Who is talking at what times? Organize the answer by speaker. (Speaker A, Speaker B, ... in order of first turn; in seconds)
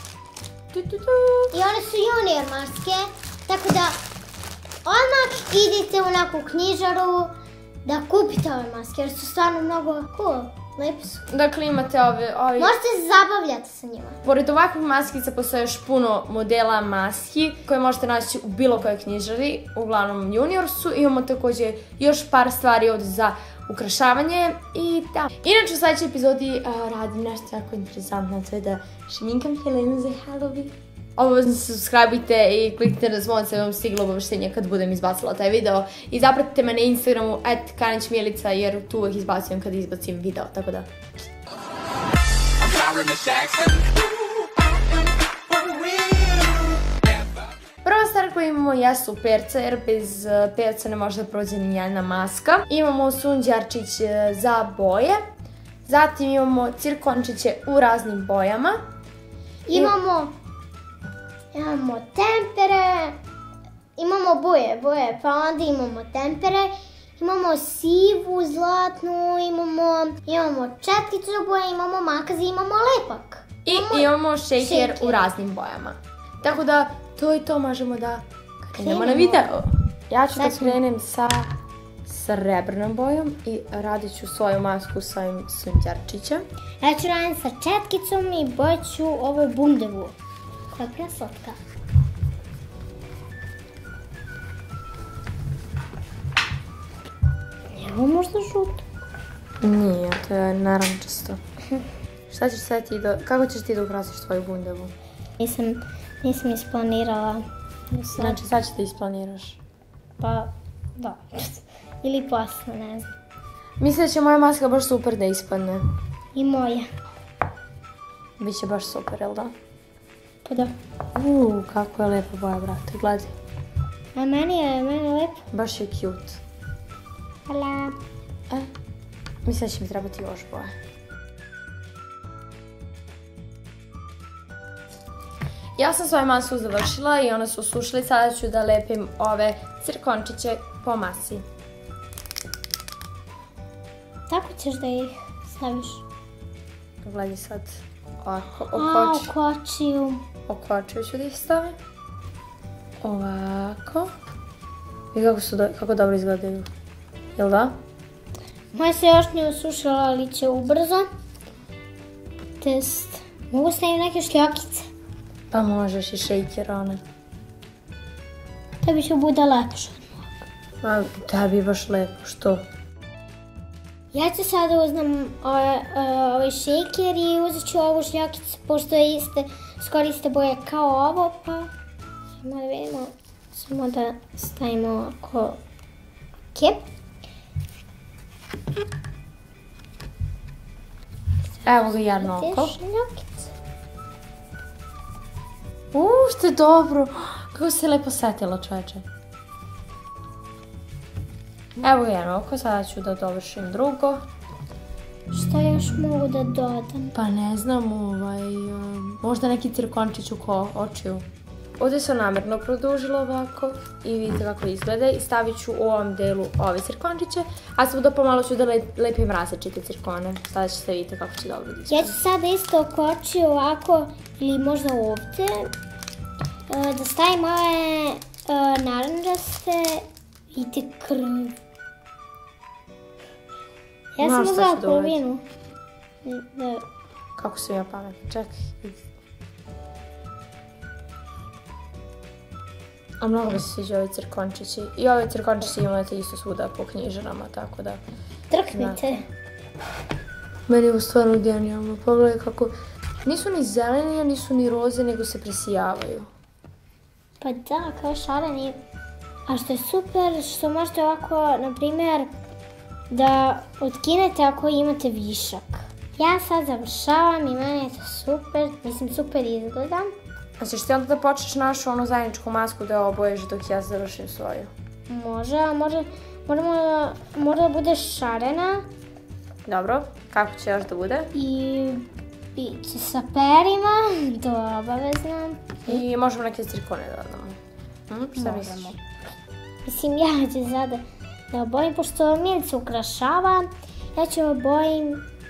Speaker A: 0.7-1.5, 11.3-12.8, 14.2-40.9, 42.8-43.8, 46.0-46.2, 47.8-55.2, 55.9-58.8, 73.7-81.5, 82.1-86.4, 99.6-101.4, 102.3-104.9, 108.2-109.6, 113.8-115.8, 118.4-119.5, 121.2-123.3, 125.5-126.4, 129.4-130.7, 135.8-141.4, 147.0-149.3, 150.5-151.8, 153.0-154.1, 155.1-156.7, 157.4-157.8, 165.5-167.0, 170.8-172.6, 191.7-192.8, 195.9-199.1, 201.8-204.2, 207.2-211.2, 211.8-222.2, 234.2-235.2, 237.4-239.0, 243.2-248.0, 248.7-249.2, 250.7-252.7, 253.2-256.3, 270.6-274.7, 279.7-281.3, 285.9-287.6, 288.1-289.0
Speaker B: 1.5-4.0, 4.8-7.3, 7.8-11.3, 12.6-14.2, 59.7-60.4, 61.5-63.2, 64.0-75.2, 78.8-79.5, 80.4-80.8, 86.8-90.2, 90.7-91.6, 97.7-98.8, 105.4-108.4, 110.2-113.1, 116.3-116.9, 120.5-120.8, 124.2-125.4, 127.5-128.0, 144.3-146.0, 148.8-150.2, 158.7-161.1, 162.6-164.9, 168.8-170.3, 174.1-181.7, 182.4-185.6, 186.5-186.9, 191.6-193.5, 205.3-207.2, 221.9-225.7, 226.7-231.6, 234.2-235.4, 236.2-236.8, 248.5-249.3, 257.4-258.8, 259.5-262.3, 263.1-270.1, 275.1-278.9, 281.3-286.0, 288.4-289.0, 289.9-295.2